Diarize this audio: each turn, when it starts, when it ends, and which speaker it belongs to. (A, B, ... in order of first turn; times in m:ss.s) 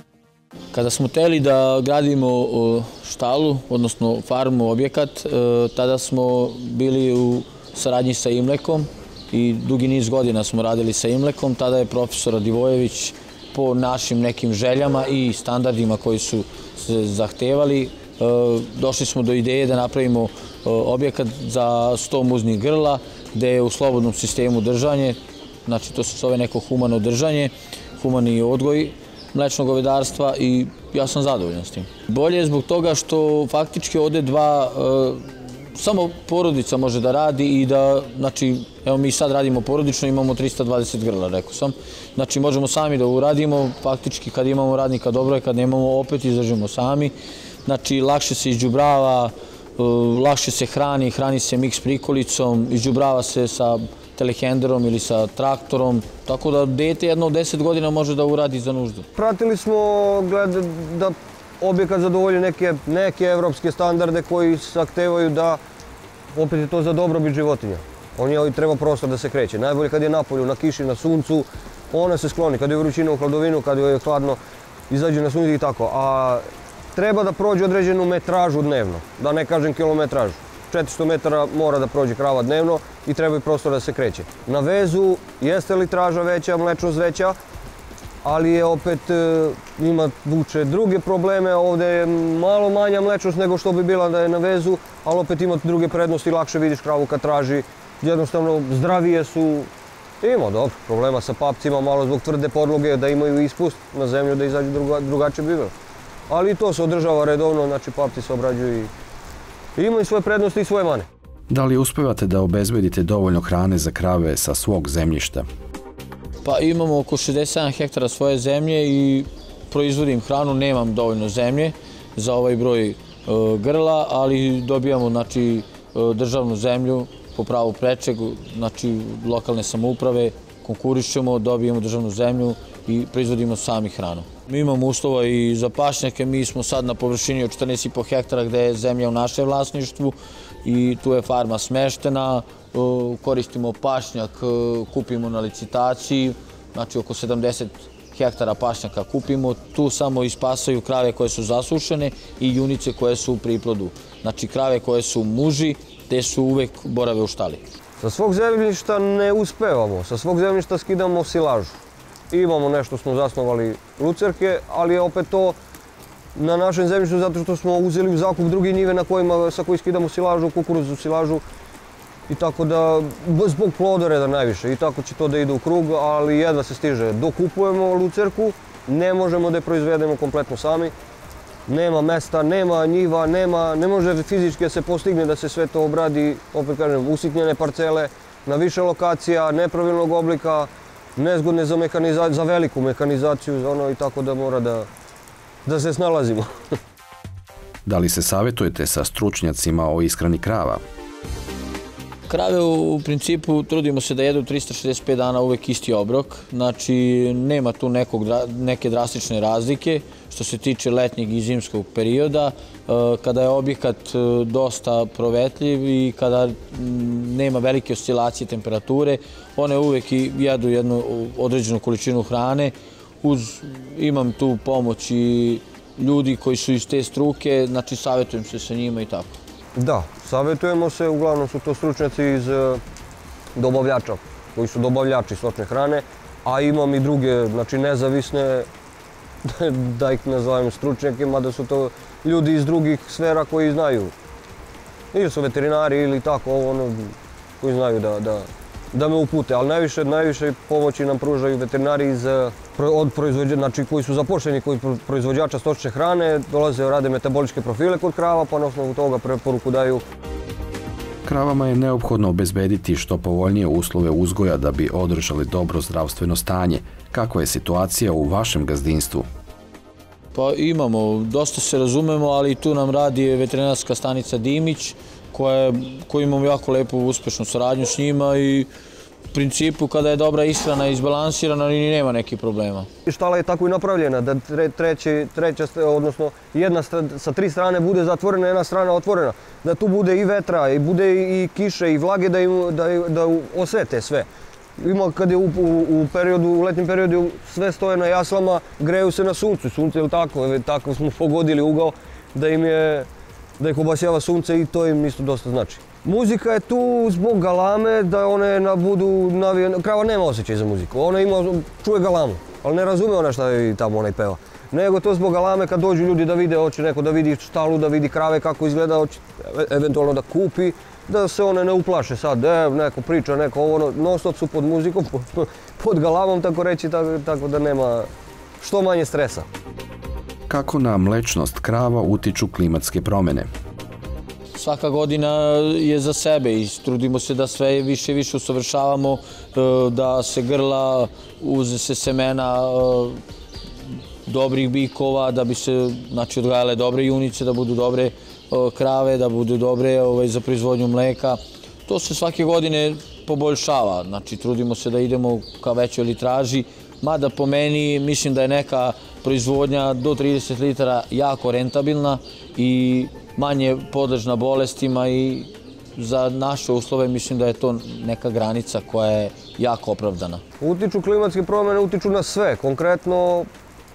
0:00.7-0:47.1 A
0:47.6-0:59.1 A
0:59.2-1:05.6 B
1:06.4-1:14.4 B
1:14.9-1:16.4 B
1:17.0-1:27.4 B
1:28.2-1:39.7 B
1:40.2-1:45.7 B
1:46.3-1:48.9 B
1:49.8-1:51.1 B
1:51.5-1:55.5 C
1:56.4-2:37.6 A
2:38.0-2:41.8 B
2:42.3-2:45.6 B
2:46.4-2:51.4 B
2:52.3-3:00.9 B
3:01.7-3:14.9 B
3:15.7-3:16.5 B
3:17.9-3:20.8 C
3:22.3-3:49.4 A
3:49.8-3:52.8 B
3:53.6-3:58.7 B
3:59.4-4:04.1 B
4:05.1-4:20.0 B
4:21.2-4:29.3 C
4:30.3-4:38.7 A
4:39.3-4:42.9 A
4:43.1-4:54.3 B
4:54.8-5:03.1 B
5:03.6-5:28.1 B
5:28.6-5:29.5 B
5:30.5-5:33.5 C
5:34.6-5:43.2 A
5:44.3-6:10.4 A
6:10.6-6:13.5 B